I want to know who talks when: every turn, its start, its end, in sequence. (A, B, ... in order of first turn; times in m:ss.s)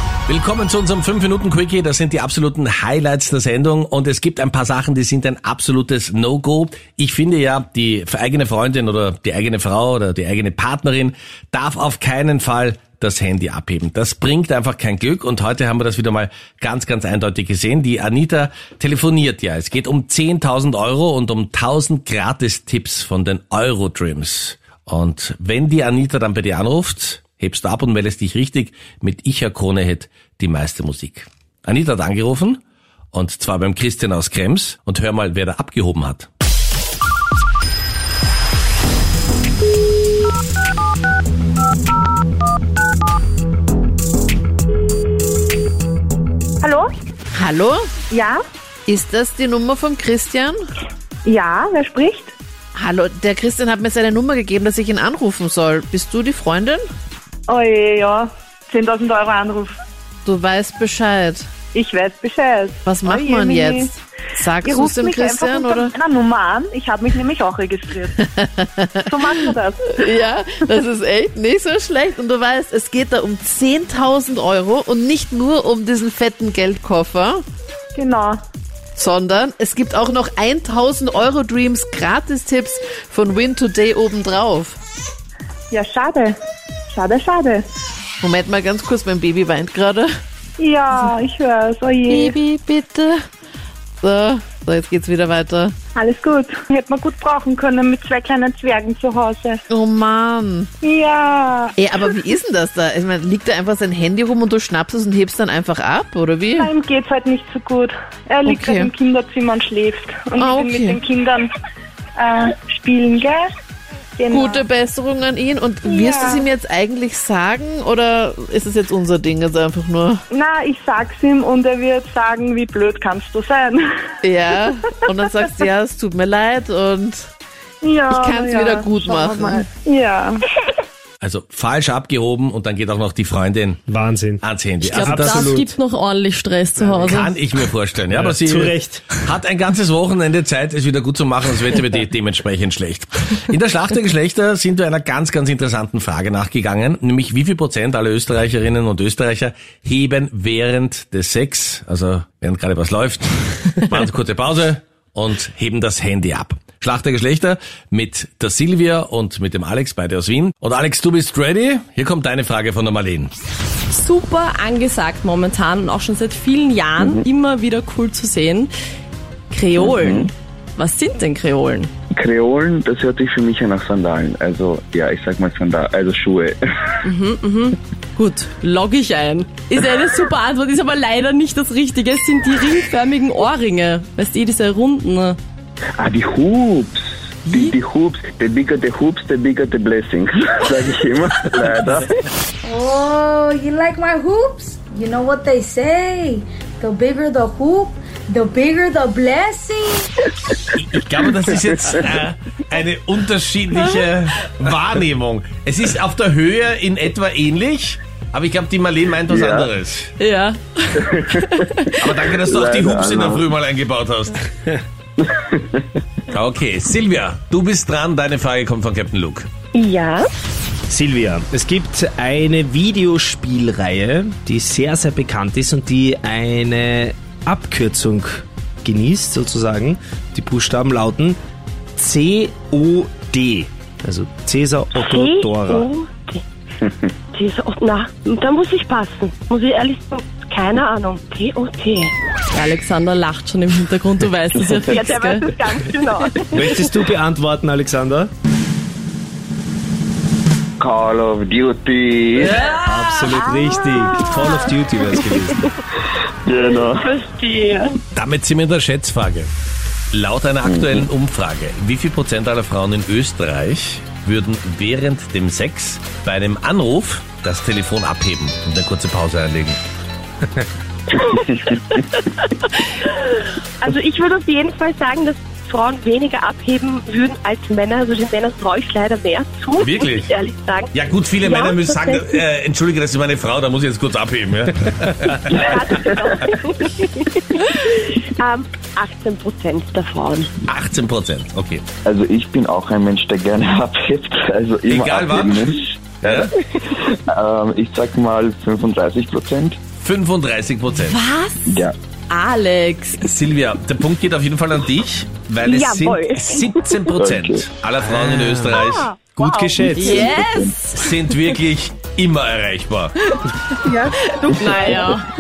0:00.3-0:32.6 A
0:33.1-0:36.3 A
0:46.6-0:46.9 B
0:47.3-0:47.9 C
0:48.1-0:48.4 B
0:48.9-0:50.6 C
0:51.2-0:52.3 B
0:52.8-0:56.8 C
0:57.5-0:59.7 B
1:00.2-1:01.5 C
1:01.7-1:03.9 B
1:02.8-1:05.9 C
1:04.6-1:08.1 B
1:08.3-1:09.0 C
1:09.1-1:10.1 B
1:10.0-1:17.4 C
1:18.0-1:18.4 B
1:19.0-1:24.8 C
1:25.7-1:26.4 B
1:26.9-1:27.6 B
1:28.2-1:30.1 C
1:30.6-1:32.3 B
1:32.1-1:33.2 C
1:34.0-1:35.8 C
1:36.0-1:39.6 B
1:39.7-1:40.7 C
1:40.8-1:41.8 B
1:41.8-1:46.7 C
1:46.6-1:51.5 B
1:48.5-1:48.9 C
1:50.4-1:51.0 C
1:52.2-1:53.4 B
1:54.2-1:54.6 B
1:54.3-2:00.2 C
1:55.9-1:56.4 B
2:00.3-2:03.9 B
2:04.2-2:07.3 C
2:07.8-2:10.4 B
2:08.1-2:09.6 C
2:11.2-2:13.8 A
2:13.9-2:14.4 D
2:14.4-2:15.6 A
2:14.8-2:17.3 E
2:14.9-2:15.7 D
2:17.1-2:43.3 A
2:18.1-2:19.1 D
2:43.9-2:48.7 E
2:47.0-2:47.2 F
2:49.5-2:51.9 E
2:49.8-2:50.3 F
2:52.1-2:56.6 F
2:57.0-3:05.4 E
3:06.0-3:12.2 F
3:07.5-3:07.7 E
3:12.6-3:20.1 G
3:20.7-3:30.1 A
3:29.3-3:29.7 F
3:30.2-3:32.0 E
3:32.0-3:34.4 A
3:32.5-3:33.5 F
3:35.2-3:35.8 F
3:36.3-3:39.5 A
3:39.7-3:40.3 H
3:40.9-3:51.4 D
3:52.0-3:55.9 D
3:54.9-3:56.4 H
3:57.3-4:02.1 H
4:02.5-4:05.6 E
4:04.7-4:07.1 H
4:06.5-4:08.3 D
4:10.8-4:12.7 F
4:12.9-4:15.6 D
4:13.2-4:15.7 H
4:16.4-4:17.2 F
4:16.6-4:18.0 H
4:18.1-4:19.5 A
4:20.1-4:29.8 A
4:20.6-4:21.1 F
4:33.1-4:42.4 H
4:39.8-4:40.3 A
4:40.9-4:46.1 A
4:45.6-4:50.5 H
4:50.7-4:51.8 A
4:52.0-4:59.8 F
4:54.9-4:56.5 A
5:00.0-5:01.2 A
5:01.0-5:03.2 E
5:01.7-5:02.0 F
5:03.2-5:09.3 A
5:05.6-5:07.0 H
5:07.2-5:07.6 F
5:08.0-5:08.7 D
5:08.6-5:10.4 H
5:09.4-5:10.0 D
5:10.0-5:11.1 E
5:10.0-5:10.7 F
5:10.9-5:13.1 A
5:13.9-5:15.1 H
5:14.5-5:15.3 E